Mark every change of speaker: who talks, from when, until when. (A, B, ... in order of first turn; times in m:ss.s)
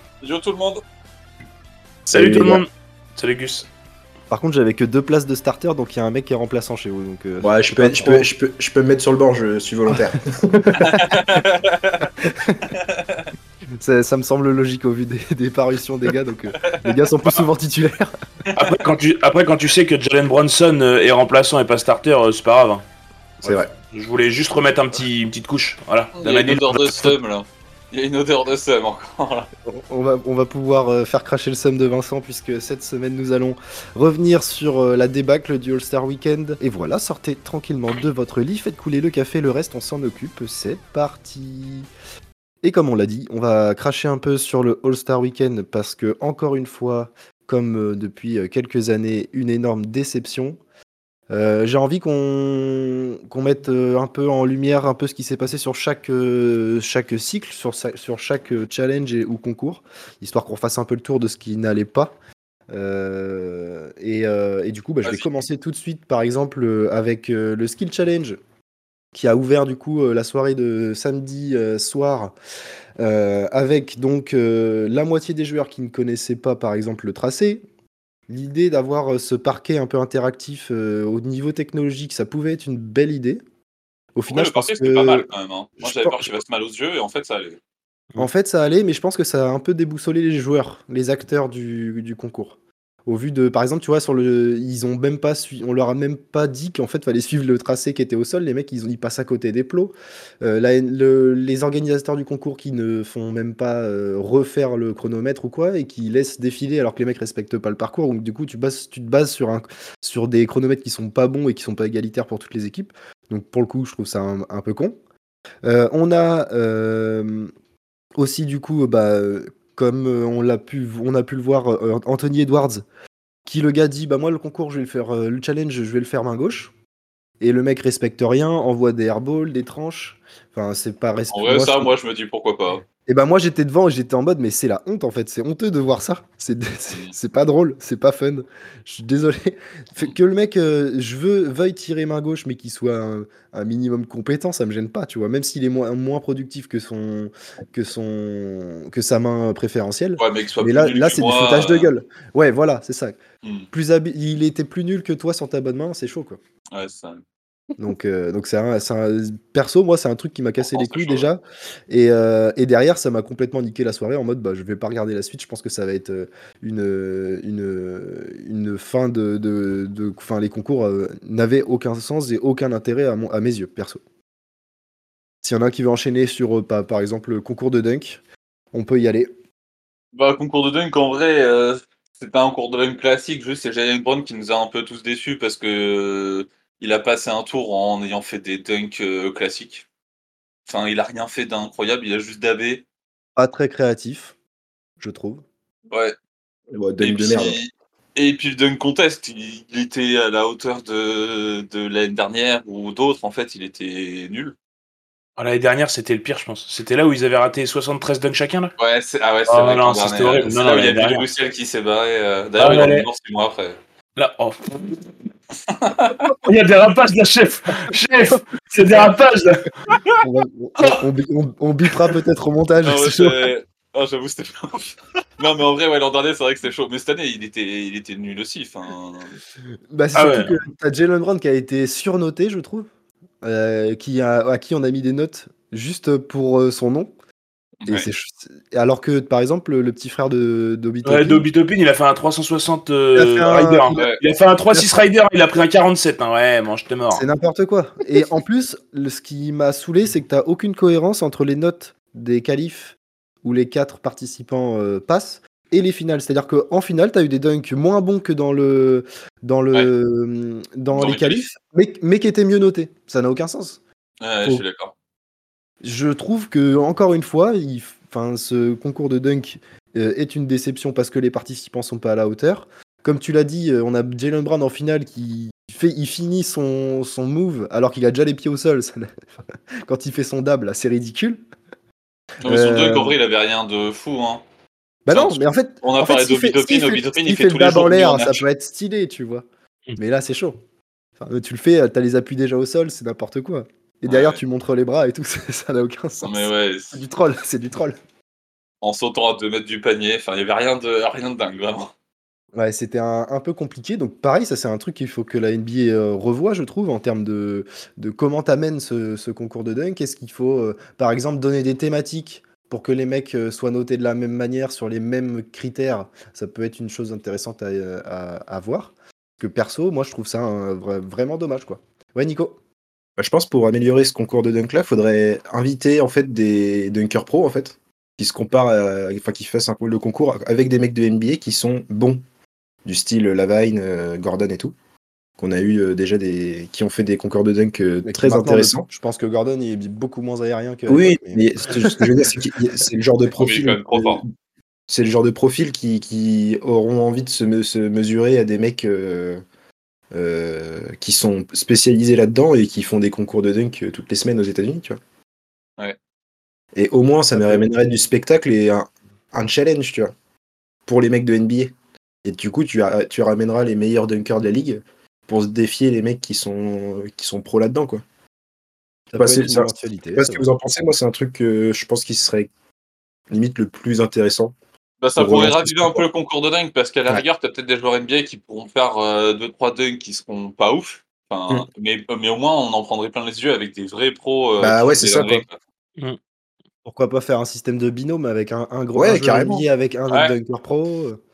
0:00.2-0:00.8 A
0:02.1-0:02.6 B
0:02.1-0:03.7 C
0:04.3-0:08.3 D
0:07.4-0:10.9 B
0:10.7-0:11.1 D
0:10.8-0:12.1 A
0:12.4-0:12.7 D
0:12.7-0:13.3 A
0:13.8-0:18.1 D
0:16.6-0:17.4 A
0:18.5-0:22.8 C
0:23.4-0:27.1 C
0:26.2-0:29.5 A
0:29.6-0:41.9 D
0:42.6-0:50.6 D
0:51.3-1:02.1 D
1:02.7-1:08.4 D
1:05.0-1:05.4 A
1:09.1-1:12.3 D
1:13.0-1:17.6 D
1:18.3-1:23.4 D
1:24.1-1:25.3 D
1:24.3-1:27.6 A
1:25.8-1:26.4 D
1:28.2-1:54.9 D
1:55.6-1:57.5 D
1:58.2-2:02.8 D
2:03.4-2:06.7 D
2:07.4-2:11.9 D
2:11.3-2:12.8 A
2:13.0-2:33.2 D
2:30.2-2:31.9 A
2:33.4-2:33.7 A
2:33.7-2:36.4 D
2:36.7-2:37.2 A
2:37.8-2:54.0 D
2:40.6-2:41.3 A
2:55.4-2:58.2 D
2:58.7-2:59.3 D
3:00.1-3:09.8 A
3:10.6-3:12.8 A
3:13.4-3:14.3 D
3:15.0-3:15.4 D
3:16.7-3:17.6 B
3:17.0-3:24.5 A
3:25.4-3:28.7 C
3:28.8-3:33.8 A
3:29.5-3:31.2 C
3:32.6-3:33.1 C
3:34.2-3:35.0 C
3:35.7-3:36.3 A
3:36.3-3:39.7 C
3:39.9-3:40.1 A
3:40.2-3:43.5 D
3:42.8-3:49.3 A
3:49.9-3:52.9 D
3:50.1-3:50.5 C
3:53.4-3:57.1 D
3:57.8-3:58.1 A
3:57.9-4:01.4 D
4:01.0-4:07.2 C
4:03.1-4:04.1 D
4:04.0-4:04.2 A
4:07.1-4:23.8 D
4:20.9-4:21.4 A
4:24.2-4:24.9 A
4:25.8-4:39.1 D
4:39.8-4:41.4 D
4:42.4-4:44.4 A
4:42.4-4:43.1 D
4:45.0-4:49.4 D
4:45.1-4:48.4 A
4:50.0-4:50.6 D
4:51.2-4:58.0 D
4:54.1-4:54.4 A
4:56.2-4:57.0 A
4:58.8-5:01.9 A
5:02.5-5:22.6 D
5:23.2-5:32.2 B
5:32.8-5:34.7 B
5:35.4-5:38.9 B
5:38.0-5:42.1 D
5:40.9-5:44.2 B
5:43.4-5:44.2 A
5:44.9-5:49.4 B
5:50.1-5:55.0 B
5:56.7-6:00.1 B
5:57.4-5:57.9 D
6:00.9-6:08.0 B
6:09.1-6:10.4 D
6:09.2-6:12.5 B
6:13.3-6:14.5 B
6:15.0-6:25.6 A
6:15.2-6:16.0 B
6:24.6-6:25.4 B
6:26.8-6:31.2 D
6:28.9-6:29.6 B
6:30.1-6:30.4 A